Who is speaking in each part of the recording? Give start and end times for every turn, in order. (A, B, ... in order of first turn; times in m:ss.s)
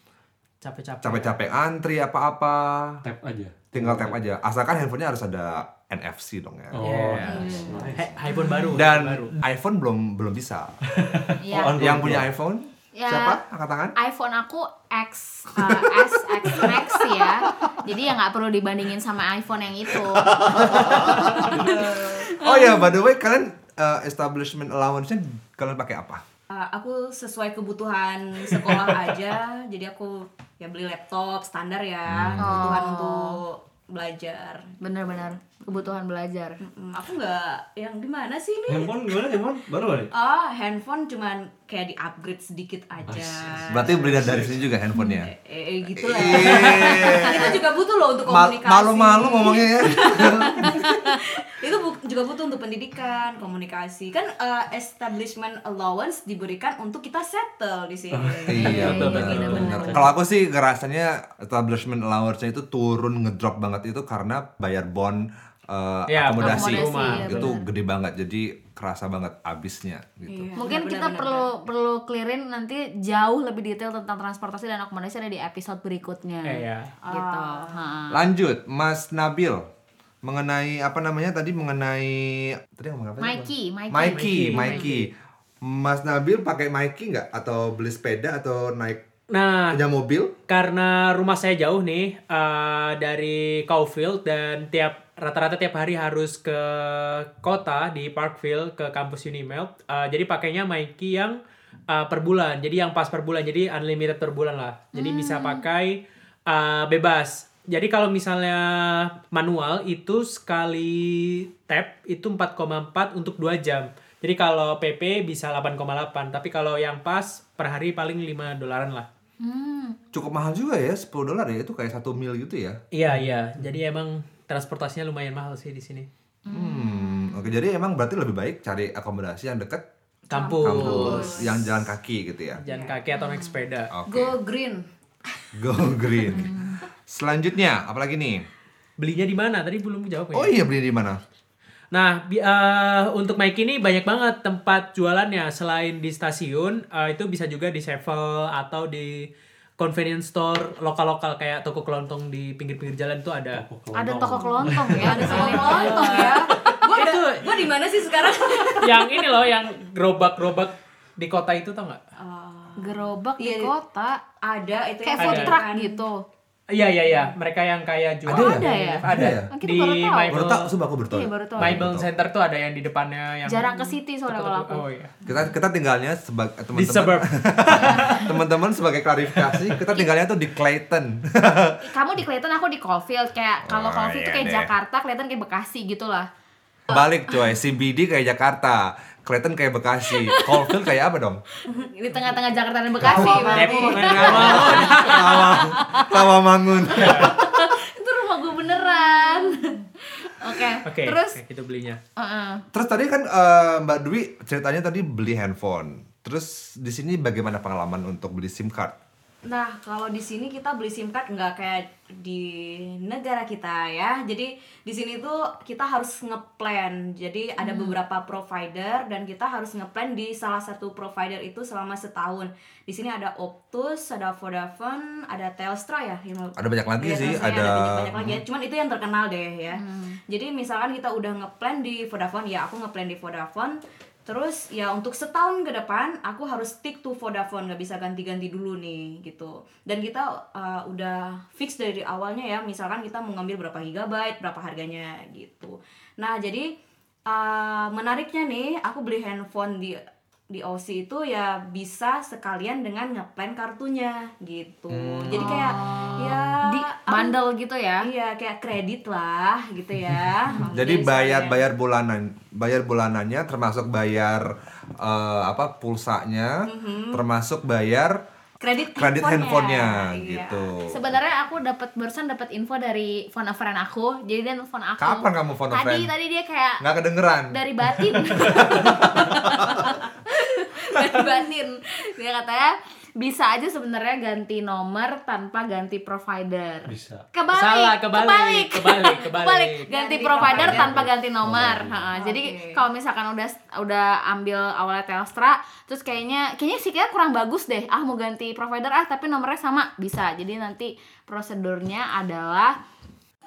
0:00.6-0:01.4 A
0:01.0-0:03.0 B
0:03.0-0:04.2 C
0:03.7-0:06.8 B
0:06.7-0:08.2 C
0:06.8-0:09.3 A
0:07.2-0:08.7 D
0:07.7-0:08.1 B
0:08.7-0:10.7 B
0:10.9-0:12.3 C
0:11.4-0:11.8 D
0:11.7-0:13.9 B
0:13.0-0:13.4 D
0:14.0-0:22.9 D
0:15.6-0:16.8 B
0:20.0-0:21.5 B
0:20.7-0:22.3 E
0:21.3-0:21.9 C
0:22.4-0:26.2 B
0:26.5-0:34.7 E
0:32.1-0:32.8 B
0:32.4-0:33.4 D
0:34.8-0:36.6 D
0:36.6-0:39.0 E
0:38.7-0:40.1 C
0:40.1-0:44.4 E
0:43.0-0:44.6 C
0:43.7-0:45.3 B
0:44.9-0:45.2 D
0:45.2-1:00.1 E
0:45.9-0:47.6 B
0:48.2-0:51.0 B
0:50.6-0:51.0 D
0:58.1-1:00.1 C
0:58.5-1:10.5 B
0:58.5-1:00.0 D
1:06.1-1:07.5 A
1:06.4-1:07.6 D
1:10.3-1:11.5 E
1:10.5-1:18.2 D
1:16.4-1:16.9 A
1:17.0-1:17.8 E
1:18.1-1:19.7 B
1:20.2-1:25.1 B
1:23.2-1:24.9 D
1:24.0-1:25.1 A
1:25.6-1:29.0 B
1:29.3-1:29.8 A
1:29.7-1:30.3 B
1:30.5-1:41.4 A
1:41.9-1:59.1 A
1:44.9-1:45.6 D
1:59.4-2:00.0 D
2:00.1-2:02.8 B
2:02.9-2:06.1 A
2:03.1-2:03.7 C
2:06.5-2:07.5 D
2:06.5-2:09.8 B
2:10.3-2:11.3 A
2:10.3-2:11.7 E
2:10.6-2:12.6 B
2:10.8-2:11.5 D
2:12.6-2:13.9 A
2:12.7-2:13.0 E
2:13.1-2:13.6 D
2:13.9-2:14.4 B
2:14.0-2:14.9 E
2:15.5-2:18.4 B
2:15.7-2:16.1 E
2:16.2-2:16.8 D
2:19.0-2:20.5 A
2:20.3-2:21.2 B
2:21.9-2:29.3 A
2:29.8-2:33.6 A
2:33.5-2:35.9 C
2:33.9-2:36.5 D
2:34.4-2:39.3 E
2:35.2-2:37.7 A
2:36.5-2:36.8 C
2:38.8-2:42.0 A
2:42.2-2:43.7 E
2:42.8-2:44.2 D
2:44.4-2:46.0 E
2:45.0-2:46.2 D
2:45.2-2:45.6 A
2:46.7-2:50.7 A
2:47.1-2:47.3 E
2:48.2-2:49.5 B
2:48.3-2:50.4 D
2:50.3-2:52.1 B
2:51.1-2:51.8 D
2:51.6-2:53.7 A
2:53.5-2:55.3 D
2:54.3-2:55.1 A
2:55.2-3:01.8 B
2:56.7-2:58.3 A
2:57.8-2:58.3 D
3:01.8-3:06.3 D
3:03.6-3:04.7 B
3:06.9-3:11.4 B
3:10.1-3:10.7 D
3:11.7-3:16.2 D
3:13.0-3:17.5 B
3:13.0-3:15.4 E
3:13.5-3:15.4 A
3:16.9-3:17.3 A
3:17.0-3:21.4 D
3:17.1-3:19.8 E
3:20.8-3:22.0 A
3:22.2-3:22.6 D
3:22.7-3:28.9 B
3:29.4-4:06.7 E
3:37.6-3:38.0 D
3:46.6-3:48.4 B
3:49.8-3:50.2 D
4:07.3-4:17.3 E
4:14.9-4:15.6 B
4:15.4-4:18.1 D
4:18.0-4:21.6 E
4:20.6-4:28.2 B
4:26.6-4:27.2 E
4:28.6-4:30.7 E
4:29.0-4:31.1 B
4:30.9-4:36.8 D
4:35.0-4:36.1 B
4:36.8-4:37.6 B
4:37.5-5:02.8 D
4:38.3-4:39.9 B
4:41.0-4:41.6 E
4:46.8-4:47.2 C
4:47.5-4:49.9 A
4:49.9-4:51.0 E
4:50.4-4:52.0 C
4:52.1-4:52.8 E